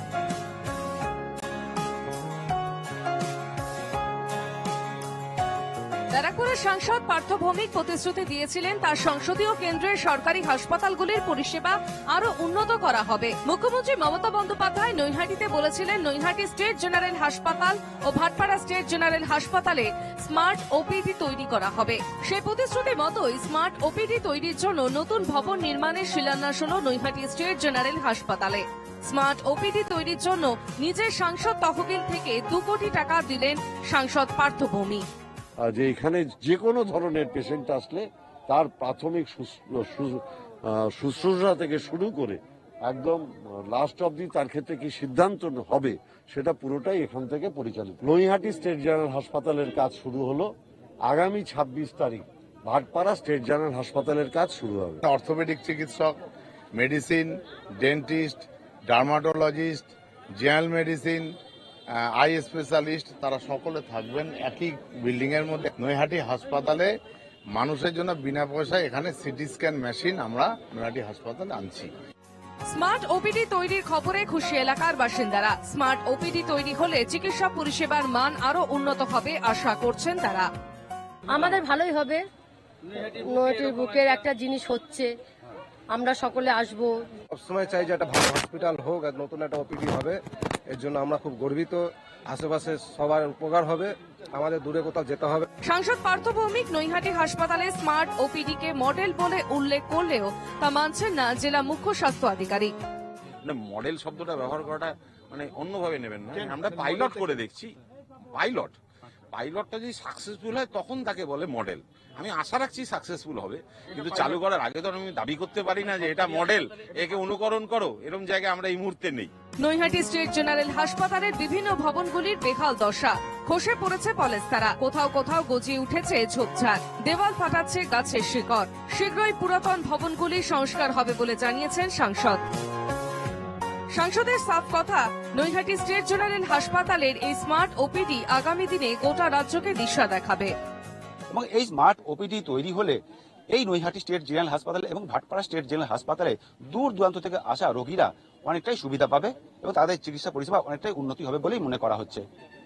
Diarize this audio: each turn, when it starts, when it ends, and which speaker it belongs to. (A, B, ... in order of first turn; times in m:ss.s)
0:06.1-0:35.0 A
0:35.6-0:50.5 B
0:51.0-0:55.0 B
0:55.0-0:56.2 C
0:56.8-1:01.3 C
1:02.0-1:06.9 C
1:07.5-1:11.9 C
1:12.7-1:20.5 A
1:21.3-1:22.2 D
1:23.2-1:25.1 D
1:25.9-1:27.0 D
1:27.3-1:30.2 E
1:30.7-1:35.5 E
1:35.6-1:42.7 A
1:43.4-1:47.7 F
1:48.3-1:48.8 F
1:49.3-1:59.3 F
1:59.6-2:12.4 A
2:13.9-2:20.5 A
2:21.3-2:23.0 G
2:23.5-2:32.2 G